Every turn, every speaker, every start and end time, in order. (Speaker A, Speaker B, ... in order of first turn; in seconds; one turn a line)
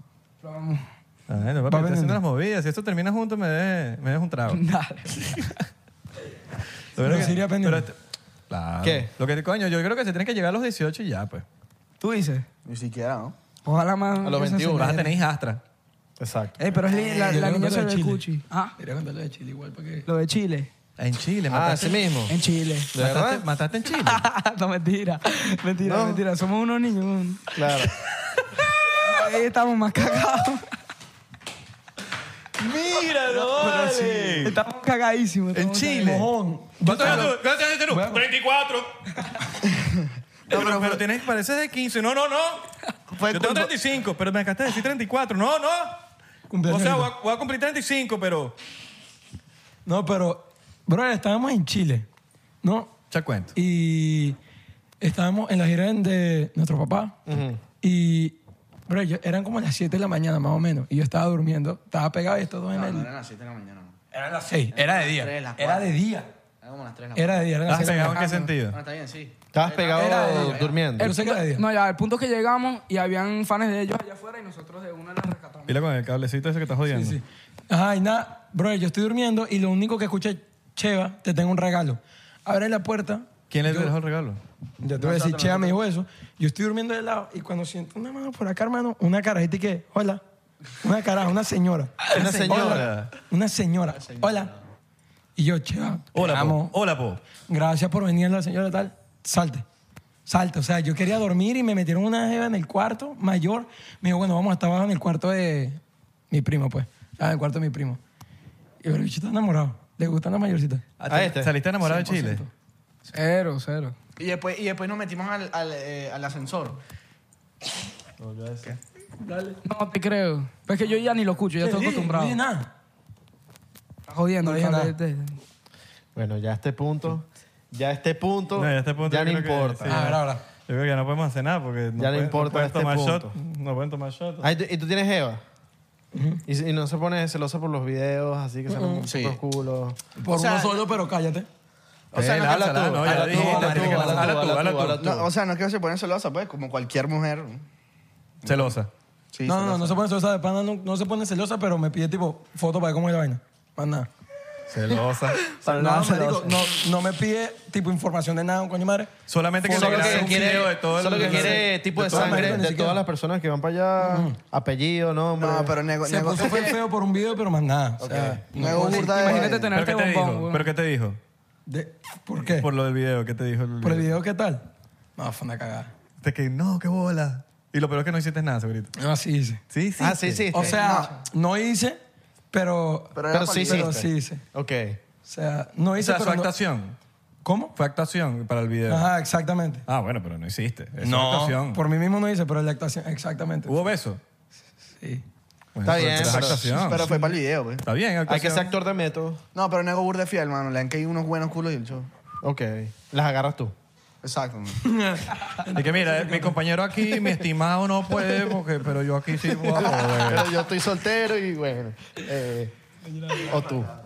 Speaker A: 0.4-0.8
Speaker B: 1.3-5.5
Speaker C: 1.7-2.2
Speaker A: 4.5-5.3
Speaker B: 7.0-8.0
Speaker C: 7.0-7.9
Speaker B: 8.5-11.5
Speaker D: 8.8-9.1
Speaker A: 12.0-12.5
Speaker E: 12.7-13.3
Speaker A: 13.7-15.1
Speaker D: 14.2-15.0
Speaker B: 14.7-15.6
Speaker D: 16.2-16.7
Speaker A: 16.6-18.8
Speaker E: 16.9-17.4
Speaker C: 17.2-18.2
Speaker C: 18.8-20.1
Speaker A: 20.1-20.7
Speaker B: 21.0-22.1
Speaker D: 21.5-22.3
Speaker A: 22.3-22.9
Speaker D: 22.9-23.5
Speaker B: 23.0-24.2
Speaker A: 23.9-27.6
Speaker D: 25.8-26.2
Speaker D: 27.6-27.9
Speaker A: 29.0-30.7
Speaker B: 32.6-34.6
Speaker C: 33.4-34.3
Speaker A: 34.4-36.2
Speaker B: 35.5-36.3
Speaker C: 36.0-37.4
Speaker B: 36.8-38.9
Speaker A: 37.0-37.3
Speaker C: 37.9-38.2
Speaker E: 39.7-41.0
Speaker B: 40.5-42.7
Speaker E: 43.1-43.7
Speaker B: 43.3-46.0
Speaker C: 46.5-47.1
Speaker B: 46.7-48.6
Speaker C: 49.9-52.1
Speaker C: 52.6-52.9
Speaker B: 53.1-53.5
Speaker C: 53.5-54.4
Speaker C: 55.0-57.2
Speaker D: 57.3-57.6
Speaker C: 57.8-63.1
Speaker E: 62.7-64.0
Speaker C: 64.1-66.3
Speaker E: 64.7-66.0
Speaker E: 66.6-67.6
Speaker C: 67.2-68.3
Speaker B: 67.7-68.8
Speaker A: 68.1-68.5
Speaker E: 68.6-70.5
Speaker D: 69.5-71.1
Speaker C: 70.0-71.6
Speaker A: 70.1-75.8
Speaker B: 75.7-77.2
Speaker C: 76.9-83.9
Speaker B: 83.5-84.4
Speaker C: 84.8-90.2
Speaker E: 85.0-85.8
Speaker C: 90.8-94.5
Speaker D: 92.1-93.0
Speaker B: 92.1-93.1
Speaker E: 94.0-94.5
Speaker C: 95.4-96.8
Speaker B: 96.1-97.2
Speaker C: 97.5-99.7
Speaker C: 100.3-105.8
Speaker C: 106.3-108.0
Speaker C: 108.8-110.8
Speaker B: 111.0-112.4
Speaker D: 111.1-111.5
Speaker C: 111.8-112.5
Speaker A: 113.1-114.0
Speaker E: 114.2-116.8
Speaker D: 118.2-118.7
Speaker C: 119.2-119.6
Speaker A: 119.6-122.4
Speaker C: 121.6-122.7
Speaker A: 124.1-125.4
Speaker C: 124.4-124.9
Speaker D: 126.2-130.1
Speaker B: 128.6-134.5
Speaker C: 129.9-130.4
Speaker D: 132.0-133.4
Speaker D: 134.4-135.4
Speaker C: 136.1-136.4
Speaker D: 136.5-140.0
Speaker C: 138.7-139.1
Speaker E: 139.1-139.4
Speaker C: 140.2-141.5
Speaker E: 140.3-140.8
Speaker E: 142.1-143.4
Speaker D: 142.1-145.3
Speaker B: 142.2-145.0
Speaker C: 143.1-144.4
Speaker E: 145.0-147.6
Speaker E: 148.4-148.7
Speaker B: 148.4-148.9
Speaker E: 149.3-150.0
Speaker C: 149.4-154.1
Speaker B: 154.7-155.5
Speaker C: 155.6-163.0
Speaker D: 155.6-156.6
Speaker B: 159.3-162.6
Speaker D: 159.7-165.8
Speaker C: 164.0-164.4
Speaker E: 165.4-166.8
Speaker C: 166.0-169.6
Speaker D: 168.0-168.4
Speaker E: 168.5-169.7
Speaker A: 168.6-170.7
Speaker B: 169.7-171.2
Speaker C: 171.7-172.7
Speaker B: 172.5-174.1
Speaker C: 173.8-175.9
Speaker B: 176.2-178.9
Speaker C: 179.0-179.6
Speaker B: 179.7-180.5
Speaker D: 180.0-180.8
Speaker C: 180.5-182.0
Speaker E: 180.7-181.2
Speaker C: 182.5-184.4
Speaker E: 183.2-183.9
Speaker D: 183.3-185.0
Speaker C: 185.2-186.5
Speaker B: 186.0-187.0
Speaker C: 187.4-187.7
Speaker B: 187.8-189.1
Speaker C: 188.9-189.9
Speaker B: 189.9-191.8
Speaker C: 191.0-193.9
Speaker B: 193.7-194.2
Speaker B: 195.8-197.2
Speaker D: 195.8-196.8
Speaker E: 196.1-197.8
Speaker C: 196.9-197.3
Speaker B: 197.8-198.7
Speaker D: 198.3-199.4
Speaker E: 199.6-202.1
Speaker D: 202.4-203.8
Speaker E: 204.2-204.9
Speaker C: 204.8-206.6
Speaker B: 205.7-210.6
Speaker D: 209.6-212.7
Speaker D: 213.4-213.9